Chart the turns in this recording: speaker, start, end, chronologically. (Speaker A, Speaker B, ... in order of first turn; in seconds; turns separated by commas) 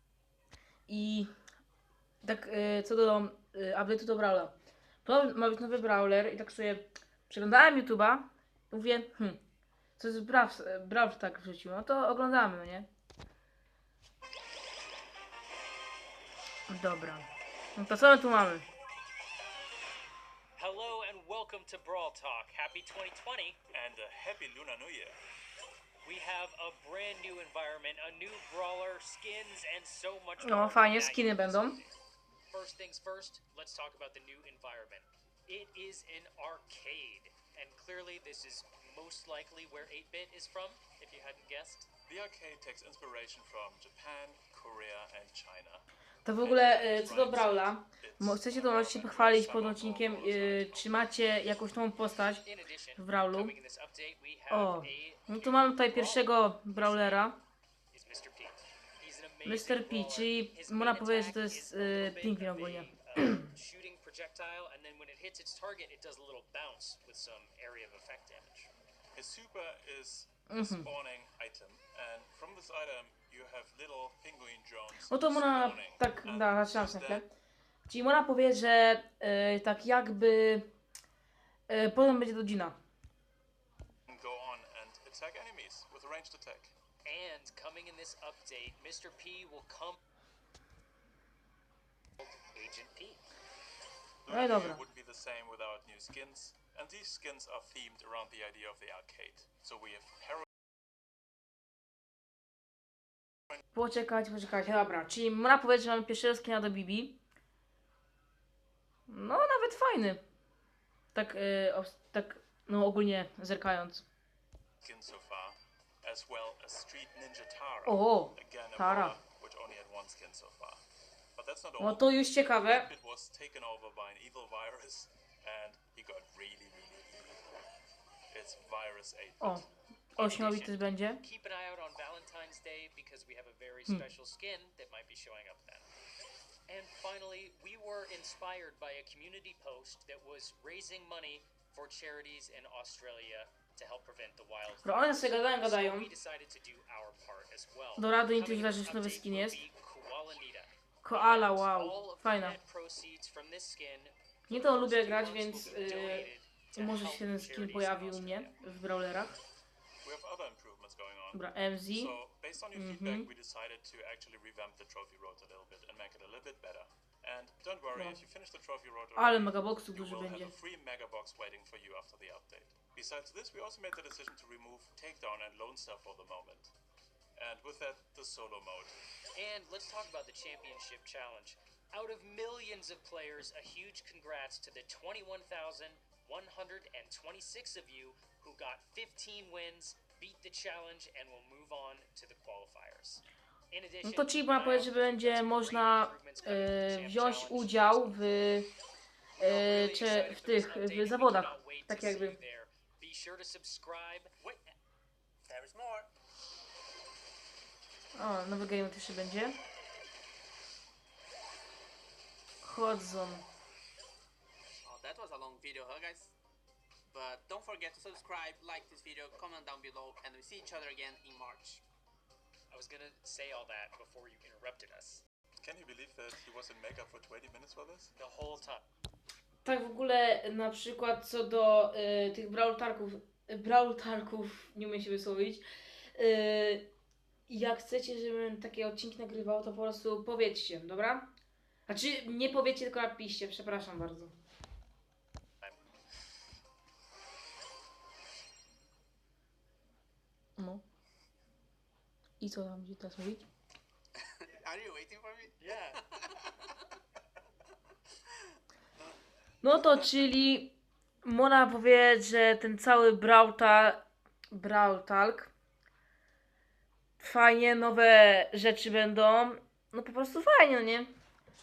Speaker A: 0.9-1.3, Speaker A: 2.2-4.5, Speaker A: 5.0-9.4, Speaker A: 10.0-12.9, Speaker A: 16.7-18.7, Speaker B: 20.6-23.6, Speaker C: 23.7-25.2, Speaker B: 26.0-32.0, Speaker A: 30.4-31.8, Speaker B: 32.5-41.9, Speaker C: 42.1-45.8, Speaker A: 46.2-52.4, Speaker C: 46.4-51.0, Speaker B: 52.4-57.4, Speaker A: 53.0-53.5, Speaker A: 54.5-57.4, Speaker B: 57.9-68.7, Speaker A: 59.4-63.4, Speaker C: 69.1-77.2, Speaker A: 70.5-70.9, Speaker A: 75.1-77.3, Speaker A: 77.9-80.7, Speaker A: 81.7-82.8, Speaker C: 84.1-86.7, Speaker B: 87.0-90.0, Speaker B: 92.2-93.2, Speaker C: 94.2-100.5, Speaker A: 94.3-94.8, Speaker A: 103.7-107.1, Speaker A: 109.1-110.2, Speaker A: 111.1-114.0, Speaker C: 114.8-120.8, Speaker A: 117.8-119.2, Speaker C: 121.3-127.4, Speaker A: 121.8-122.9, Speaker C: 128.3-129.7, Speaker B: 130.2-135.9, Speaker A: 130.2-131.2, Speaker B: 136.7-158.5, Speaker A: 144.8-146.1, Speaker A: 148.0-149.6, Speaker A: 151.0-152.6, Speaker A: 154.5-159.4, Speaker C: 160.0-176.7, Speaker A: 161.3-162.1, Speaker A: 162.7-163.3, Speaker A: 169.2-170.5, Speaker C: 177.4-178.9, Speaker B: 179.3-198.2, Speaker A: 194.0-198.7, Speaker B: 199.4-204.3, Speaker A: 199.4-202.4, Speaker D: 205.4-206.1, Speaker A: 208.1-209.6, Speaker A: 212.6-213.4, Speaker D: 214.8-216.3, Speaker D: 217.1-221.8, Speaker B: 222.7-225.2, Speaker C: 225.6-228.1, Speaker B: 228.2-228.8, Speaker A: 229.6-236.9, Speaker A: 237.5-241.3, Speaker A: 241.9-244.3, Speaker A: 250.6-250.8, Speaker A: 252.4-253.4, Speaker D: 254.2-255.6, Speaker B: 255.6-256.0, Speaker D: 256.1-256.4, Speaker A: 259.6-265.5, Speaker A: 267.2-271.1